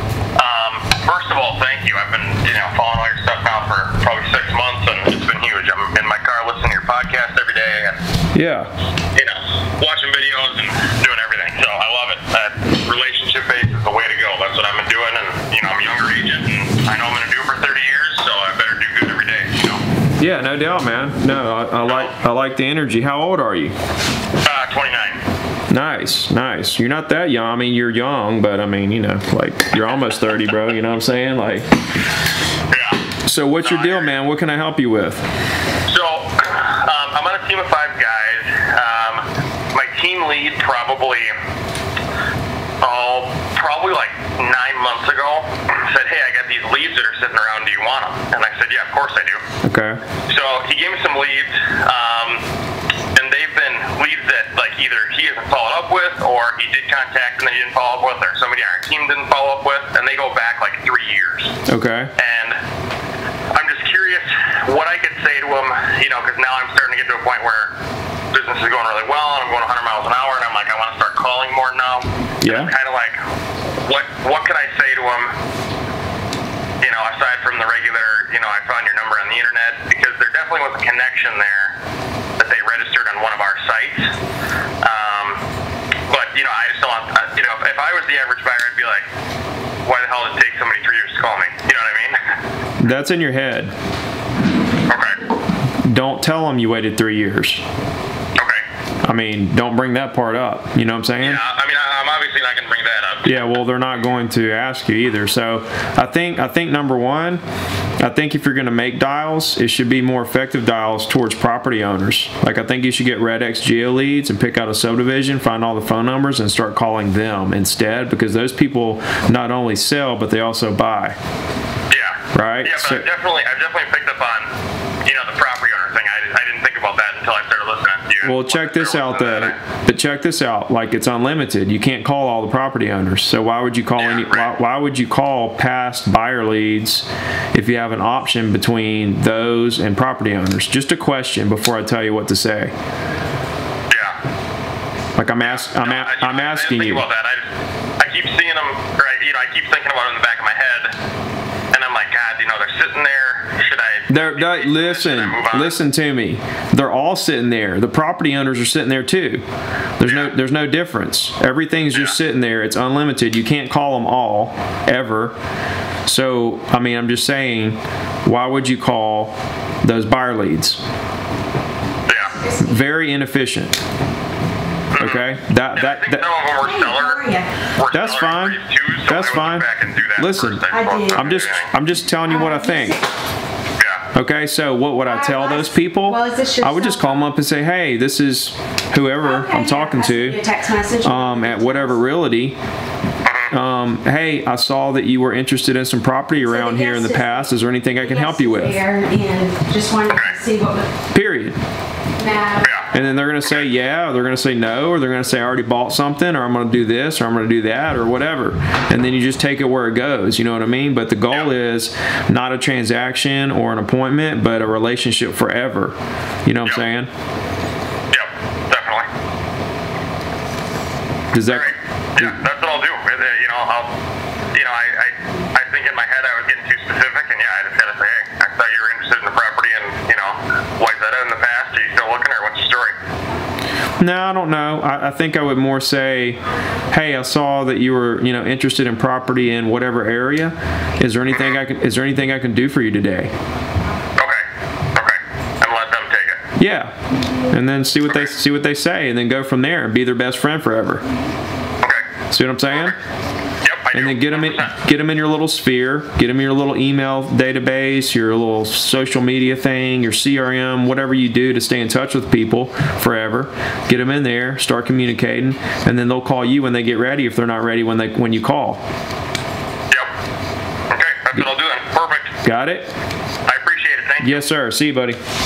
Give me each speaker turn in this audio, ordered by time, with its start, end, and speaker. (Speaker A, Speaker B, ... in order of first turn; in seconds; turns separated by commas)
Speaker A: 0.4-8.0, Speaker B: 8.3-8.7, Speaker A: 9.1-19.8, Speaker B: 20.2-23.7, Speaker A: 21.9-22.1, Speaker A: 24.4-25.2, Speaker B: 25.7-31.7, Speaker A: 32.7-33.0, Speaker B: 33.2-35.2, Speaker A: 33.6-34.1, Speaker A: 35.9-41.3, Speaker A: 42.8-49.4, Speaker B: 49.6-50.0, Speaker A: 50.3-52.4, Speaker A: 53.1-61.5, Speaker B: 61.7-62.1, Speaker A: 62.2-62.6, Speaker A: 63.5-67.7, Speaker A: 68.3-73.2, Speaker B: 72.4-72.7, Speaker A: 73.8-75.3, Speaker A: 76.8-81.7, Speaker A: 82.4-84.1, Speaker A: 84.8-85.4, Speaker A: 86.1-89.1, Speaker A: 89.9-92.2, Speaker B: 92.8-93.7, Speaker A: 94.9-95.2, Speaker B: 95.8-97.6, Speaker B: 99.0-101.4, Speaker A: 101.2-103.4, Speaker B: 103.2-107.4, Speaker B: 108.0-121.2, Speaker A: 121.9-124.5, Speaker B: 122.3-123.1, Speaker A: 125.0-129.6, Speaker B: 128.2-142.7, Speaker A: 134.0-134.5, Speaker A: 143.9-144.2, Speaker B: 145.2-147.1, Speaker A: 145.4-147.5, Speaker A: 148.0-150.9, Speaker A: 151.7-155.8, Speaker B: 154.1-159.4, Speaker B: 160.0-165.3, Speaker A: 160.1-160.3, Speaker B: 166.1-170.8, Speaker A: 172.1-172.3, Speaker B: 172.6-173.8, Speaker A: 174.9-181.7, Speaker B: 175.0-176.3, Speaker C: 176.6-177.5, Speaker B: 177.9-183.0, Speaker C: 180.7-181.3, Speaker C: 182.3-183.0, Speaker A: 183.8-184.1, Speaker B: 184.1-190.4, Speaker C: 185.1-187.2, Speaker C: 189.2-192.0, Speaker B: 191.0-192.6, Speaker A: 193.2-193.5, Speaker B: 193.5-198.8, Speaker C: 196.4-200.9, Speaker A: 200.1-200.4, Speaker B: 201.1-201.6, Speaker C: 202.2-202.7, Speaker A: 202.6-202.9, Speaker B: 202.9-217.1, Speaker A: 218.1-219.1, Speaker B: 221.3-221.7, Speaker A: 221.4-223.9, Speaker A: 224.5-232.9, Speaker B: 234.0-236.4, Speaker B: 236.9-243.3, Speaker A: 241.3-241.6, Speaker A: 244.2-244.4, Speaker A: 245.0-246.4, Speaker B: 246.6-247.0, Speaker B: 247.5-251.0, Speaker B: 252.3-252.9, Speaker A: 252.7-252.9, Speaker A: 253.6-254.7, Speaker B: 253.9-268.8, Speaker A: 270.9-272.3, Speaker B: 272.4-272.9, Speaker A: 273.5-274.5, Speaker B: 274.2-275.2